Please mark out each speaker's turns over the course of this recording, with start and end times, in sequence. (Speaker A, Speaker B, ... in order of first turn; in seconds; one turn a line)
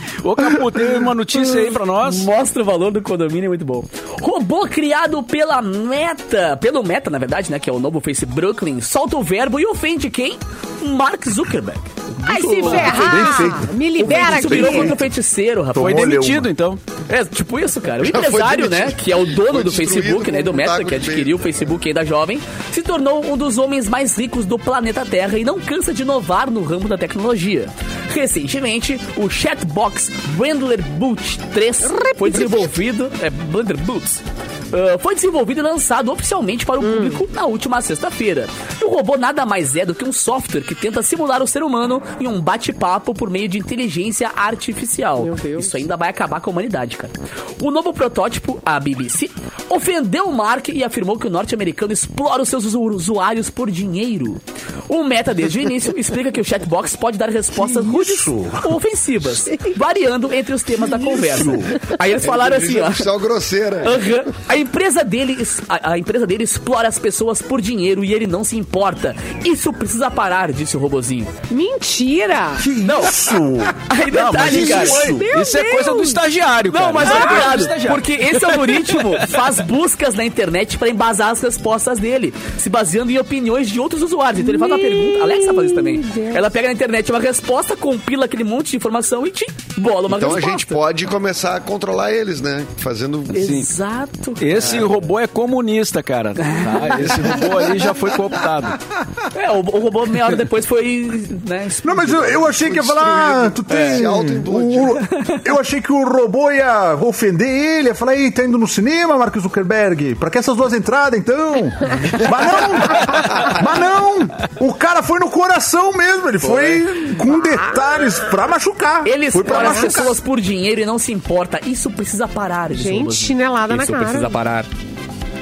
Speaker A: 0.2-2.3
Speaker B: 1.3-16.1
Speaker C: 12.2-15.0
Speaker A: 12.6-13.0
Speaker D: 12.7-14.9
Speaker D: 15.7-16.5
Speaker A: 15.8-16.8
Speaker B: 17.1-63.1
Speaker E: 18.0-21.6
Speaker C: 31.8-32.7
Speaker C: 36.8-37.2
Speaker C: 45.2-45.8
Speaker D: 57.5-58.7
Speaker D: 61.1-61.7
Speaker E: 61.1-61.4
Speaker E: 62.1-64.2
Speaker B: 63.8-71.3
Speaker C: 71.5-72.6
Speaker D: 72.6-73.8
Speaker B: 72.8-73.2
Speaker B: 73.8-75.2
Speaker A: 74.1-79.2
Speaker C: 74.5-76.2
Speaker B: 76.7-90.8
Speaker C: 77.0-77.6
Speaker C: 84.4-86.4
Speaker E: 90.1-93.4
Speaker B: 93.3-94.9
Speaker A: 93.3-93.7
Speaker A: 94.4-98.8
Speaker E: 94.6-94.9
Speaker B: 96.4-97.5
Speaker E: 97.0-98.0
Speaker B: 99.3-102.5
Speaker D: 101.8-120.2
Speaker E: 102.6-105.0
Speaker B: 103.7-104.1
Speaker B: 116.4-117.0
Speaker C: 117.3-118.0
Speaker B: 119.0-124.7
Speaker C: 119.5-120.0
Speaker C: 122.7-124.3